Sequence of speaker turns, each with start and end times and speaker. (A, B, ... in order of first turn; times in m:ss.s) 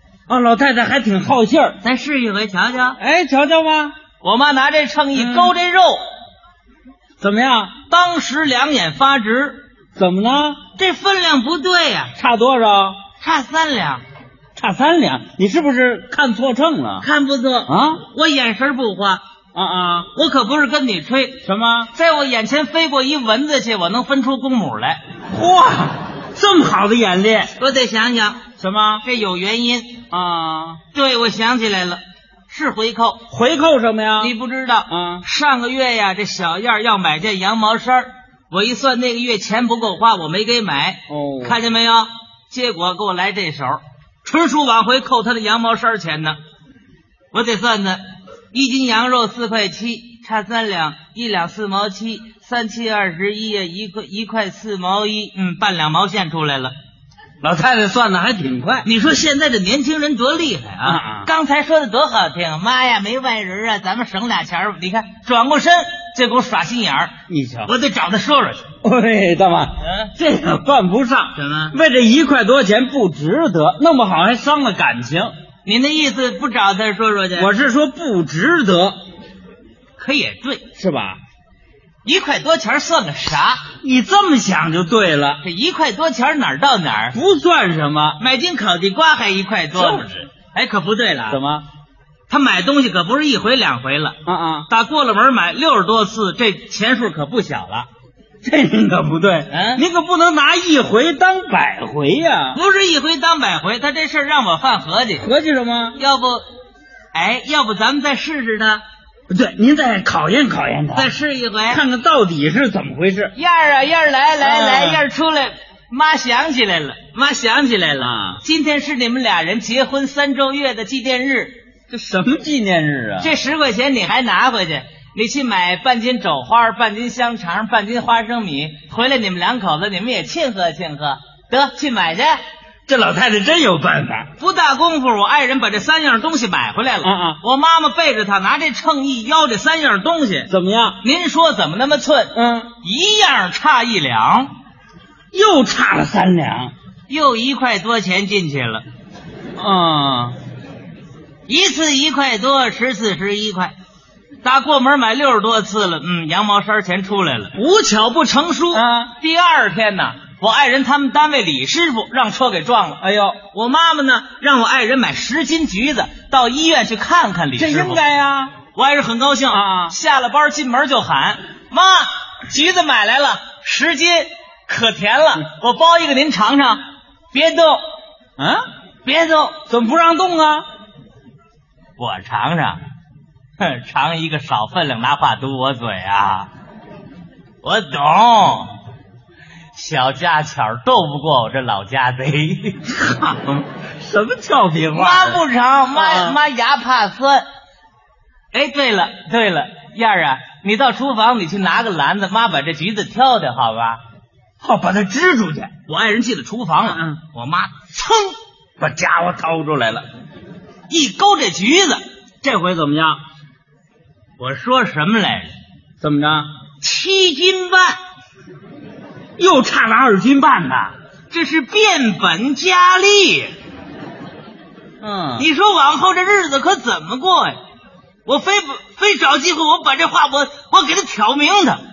0:00.3-0:01.8 A
0:01.8-0:03.0 B
0:03.0-0:03.9 A
0:04.2-0:06.0 B
0:05.1-0:05.5 A
0:07.2-0:07.7 A
0:07.9-0:09.6 B
0:10.0-0:10.6 A
0:10.8-0:12.2 B
0:12.2-0:13.0 A
0:13.2-0:14.0 B
0:14.6-0:17.1 A
0:17.0-0:19.2 B
0:17.7-0:18.0 A
0:19.6-0:20.1 A
0:20.1-0:25.0 B
0:21.4-0:21.9 A
0:25.3-0:27.5 A
0:27.6-0:28.4 B
0:28.6-0:29.0 A
0:29.0-0:30.0 B
0:30.1-0:30.8 A
0:30.9-0:33.3 B
0:33.3-0:34.3 A
0:34.2-0:46.4 B
0:34.9-0:35.2 A
0:41.1-0:41.6 A
0:47.3-0:48.0 B
0:48.5-0:56.7 B
0:57.4-0:58.9 A
0:58.8-1:07.2 B
1:00.8-1:01.3 A
1:07.3-1:07.7 A
1:07.7-1:08.7 B
1:08.8-1:15.3 A
1:09.8-1:10.1 B
1:11.4-1:11.8 B
1:15.6-1:17.5 B
1:17.3-1:19.0 A
1:20.0-1:20.7 B
1:20.8-1:21.2 A
1:22.0-1:23.6 B
1:23.8-1:25.4 A
1:25.4-1:27.2 B
1:27.1-1:28.2 A
1:28.2-1:31.4 B
1:29.7-1:30.1 A
1:31.3-1:31.6 A
1:32.3-1:34.2 B
1:34.3-1:34.7 A
1:34.7-1:37.9 B
1:38.4-1:42.6 A
1:39.5-1:39.8 B
1:42.5-1:45.3 B
1:45.2-1:46.0 A
1:46.0-1:46.4 B
1:47.1-1:48.8 B
1:49.3-1:51.1 A
1:50.9-1:51.8 B
1:51.7-1:53.3 A
1:53.3-2:01.6 B
1:54.4-1:55.0 A
1:58.0-1:58.4 A
2:01.9-2:03.3 A
2:03.2-2:12.4 B
2:12.9-2:14.3 A
2:14.4-2:20.5 B
2:17.0-2:17.4 A
2:20.5-2:21.0 A
2:21.0-2:24.5 B
2:22.3-2:22.7 A
2:25.3-2:26.7 A
2:27.1-2:28.8 B
2:29.6-2:30.4 A
2:31.5-2:33.7 B
2:34.4-2:48.0 B
2:38.7-2:39.1 A
2:43.0-2:43.4 A
2:47.6-2:48.5 A
2:48.7-2:56.8 B
2:49.5-2:50.0 A
2:57.3-2:57.8 B
2:58.4-2:58.6 A
2:59.0-2:59.6 B
2:59.7-3:00.7 A
3:02.0-3:02.8 B
3:03.6-3:06.5 B
3:07.6-3:08.7 B
3:09.7-3:12.8 B
3:12.9-3:15.4 A
3:14.9-3:17.5 B
3:15.9-3:16.4 A
3:18.5-3:24.0 B
3:24.6-3:25.7 A
3:25.9-3:28.4 B
3:26.8-3:27.2 A
3:28.8-3:30.1 A
3:30.9-3:32.0 B
3:32.4-3:33.2 A
3:34.4-3:35.6 B
3:36.0-3:36.5 A
3:36.8-3:38.0 B
3:39.4-3:40.9 A
3:41.3-3:43.5 B
3:45.0-3:45.5 A
3:45.4-3:47.6 B
3:48.3-3:51.8 B